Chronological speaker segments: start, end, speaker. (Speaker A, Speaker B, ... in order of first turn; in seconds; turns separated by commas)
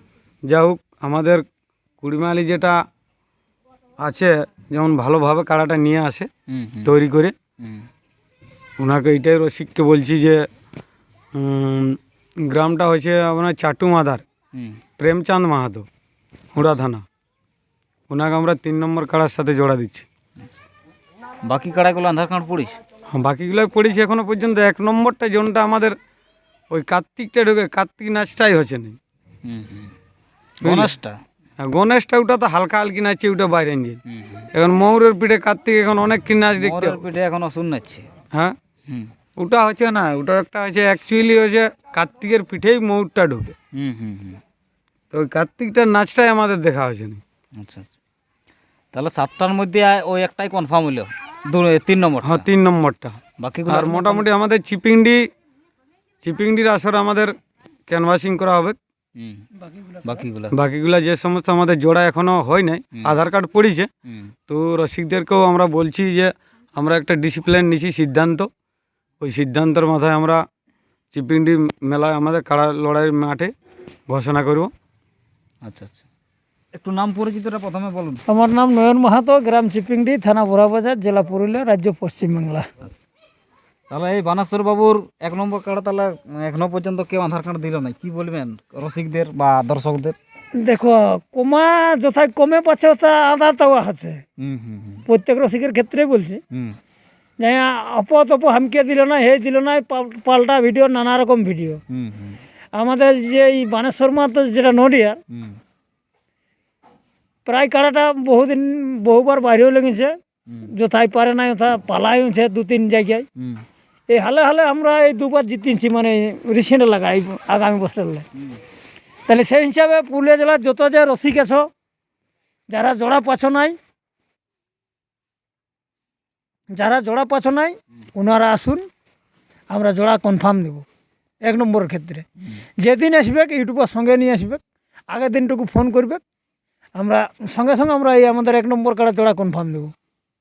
Speaker A: 0.5-1.4, Speaker A: 2.0-2.8, Speaker A: 4.0-6.3, Speaker B: 6.5-6.9, Speaker A: 6.8-7.3, Speaker B: 7.6-7.9, Speaker A: 8.8-10.4, Speaker A: 11.3-14.2, Speaker A: 15.0-15.9, Speaker A: 16.5-17.0, Speaker A: 18.1-20.1, Speaker B: 21.4-22.8, Speaker A: 23.1-25.9, Speaker A: 26.7-29.0, Speaker B: 29.4-29.9, Speaker A: 30.6-30.9, Speaker B: 30.6-31.1, Speaker A: 31.6-34.0, Speaker B: 34.1-34.5, Speaker A: 34.5-37.0, Speaker B: 36.6-38.1, Speaker A: 39.4-43.5, Speaker B: 43.7-44.4, Speaker A: 45.1-47.2, Speaker B: 47.6-47.9, Speaker B: 48.9-52.5, Speaker A: 52.2-55.2, Speaker B: 53.4-54.3, Speaker A: 56.2-57.3, Speaker A: 57.9-58.8, Speaker B: 59.1-59.5, Speaker B: 60.0-60.5, Speaker A: 60.5-63.9, Speaker B: 64.0-64.3, Speaker A: 64.5-68.5, Speaker A: 69.2-70.4, Speaker A: 71.1-73.5, Speaker A: 74.1-74.7, Speaker B: 75.6-76.0, Speaker B: 76.7-78.2, Speaker C: 78.3-82.7, Speaker B: 83.9-90.2, Speaker C: 90.6-94.2, Speaker B: 94.4-95.1, Speaker C: 95.1-96.4, Speaker B: 96.5-96.8, Speaker C: 97.4-101.8, Speaker B: 101.9-102.4, Speaker C: 102.7-105.2, Speaker B: 105.3-105.6, Speaker C: 107.5-113.3, Speaker B: 113.4-113.6, Speaker C: 114.1-118.2, Speaker C: 119.3-121.7, Speaker C: 122.7-123.8, Speaker C: 126.7-128.9, Speaker C: 129.7-130.8, Speaker C: 131.4-132.3, Speaker C: 132.8-136.2, Speaker C: 136.9-139.9